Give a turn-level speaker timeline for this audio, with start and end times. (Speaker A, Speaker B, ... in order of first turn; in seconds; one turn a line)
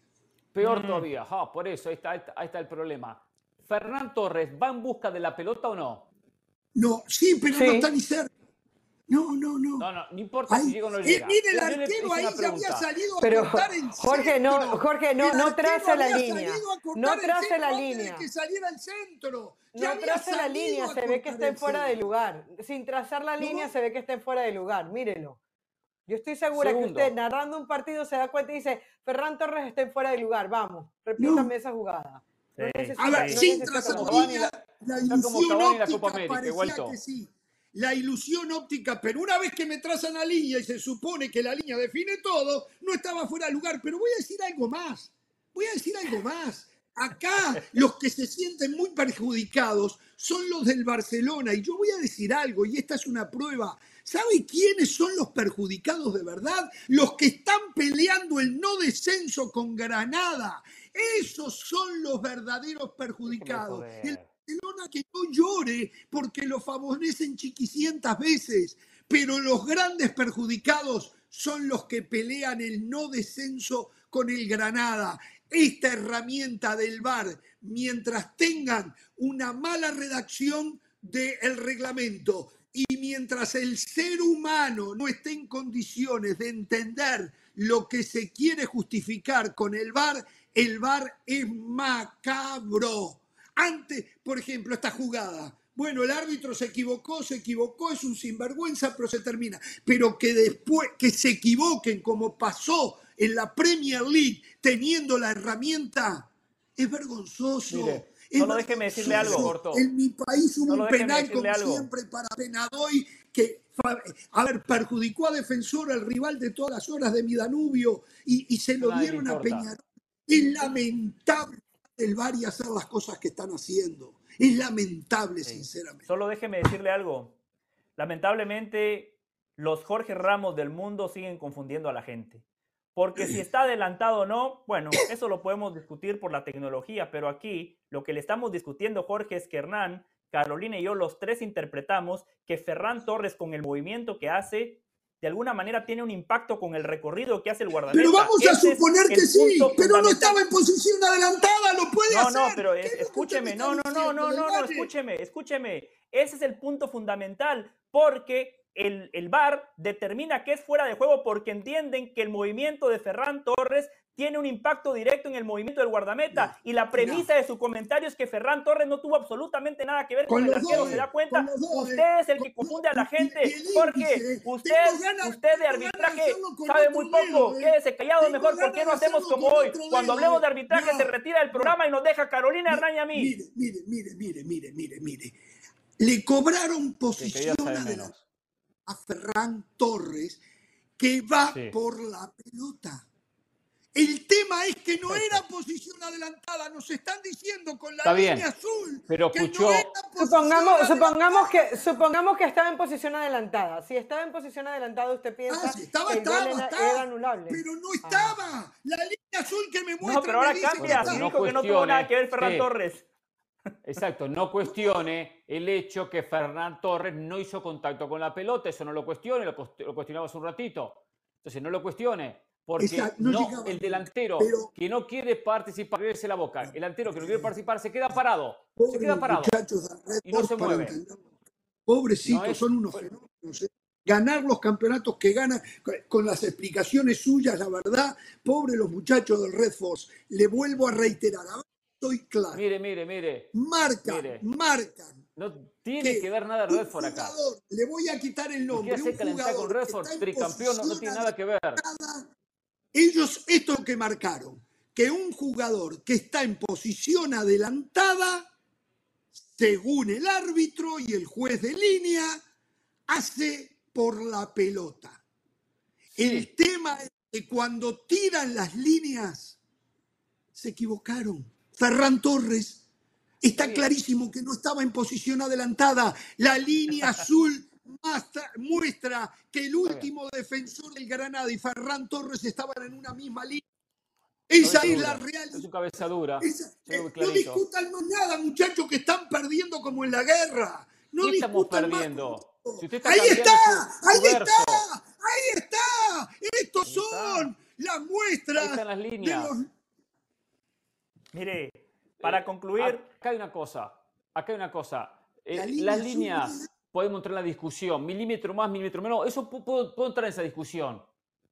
Speaker A: 0.6-6.1
Speaker B: 0.6-1.1
Speaker C: 6.8-8.3
Speaker D: 7.5-7.9
Speaker C: 9.1-9.9
Speaker A: 9.8-12.9
Speaker C: 10.5-22.0
Speaker D: 13.2-18.3
Speaker D: 19.7-25.4
Speaker C: 23.4-23.7
Speaker D: 26.1-34.5
Speaker A: 26.5-27.1
Speaker C: 31.2-31.5
Speaker B: 32.6-33.4
Speaker C: 33.0-126.1
Speaker A: 33.6-34.5
Speaker A: 35.1-37.0
Speaker A: 63.3-64.3
Speaker A: 107.7-108.0
Speaker B: 108.4-109.5
Speaker A: 109.0-109.9
Speaker B: 110.7-111.9
Speaker A: 118.8-119.7
Speaker B: 126.1-127.4
Speaker B: 128.0-132.4
Speaker B: 132.9-150.4
Speaker C: 147.9-154.9
Speaker B: 152.1-183.3
Speaker C: 166.3-167.3
Speaker C: 170.3-181.8
Speaker A: 170.7-171.0
Speaker C: 182.7-185.4
Speaker C: 186.0-188.2
Speaker A: 187.2-188.2
Speaker C: 188.9-190.4
Speaker C: 191.0-193.1
Speaker C: 193.9-201.6
Speaker A: 195.1-195.4
Speaker A: 198.0-198.4
Speaker A: 199.1-199.9
Speaker D: 200.2-208.4
Speaker C: 205.5-211.3
Speaker B: 210.0-213.1
Speaker A: 210.8-212.7
Speaker A: 213.8-229.6
Speaker C: 214.6-214.9
Speaker C: 222.8-224.7
Speaker C: 226.6-227.5
Speaker C: 228.8-231.3
Speaker A: 230.2-231.0
Speaker C: 231.9-242.6
Speaker A: 232.2-233.1
Speaker A: 242.5-244.4
Speaker C: 243.5-245.2
Speaker A: 245.4-247.4
Speaker C: 246.0-252.3
Speaker A: 248.7-251.8
Speaker C: 252.9-258.5
Speaker C: 259.3-262.4
Speaker C: 263.1-265.2
Speaker C: 266.1-269.6
Speaker A: 266.2-266.5
Speaker C: 270.5-272.8
Speaker C: 273.4-283.6
Speaker A: 273.6-273.9
Speaker A: 279.8-280.1
Speaker C: 284.5-285.6
Speaker A: 284.6-287.6
Speaker C: 286.4-299.7
Speaker A: 291.2-294.9
Speaker B: 296.9-297.5
Speaker A: 298.6-299.6
Speaker B: 301.3-303.0
Speaker A: 302.2-311.1
Speaker C: 305.5-306.7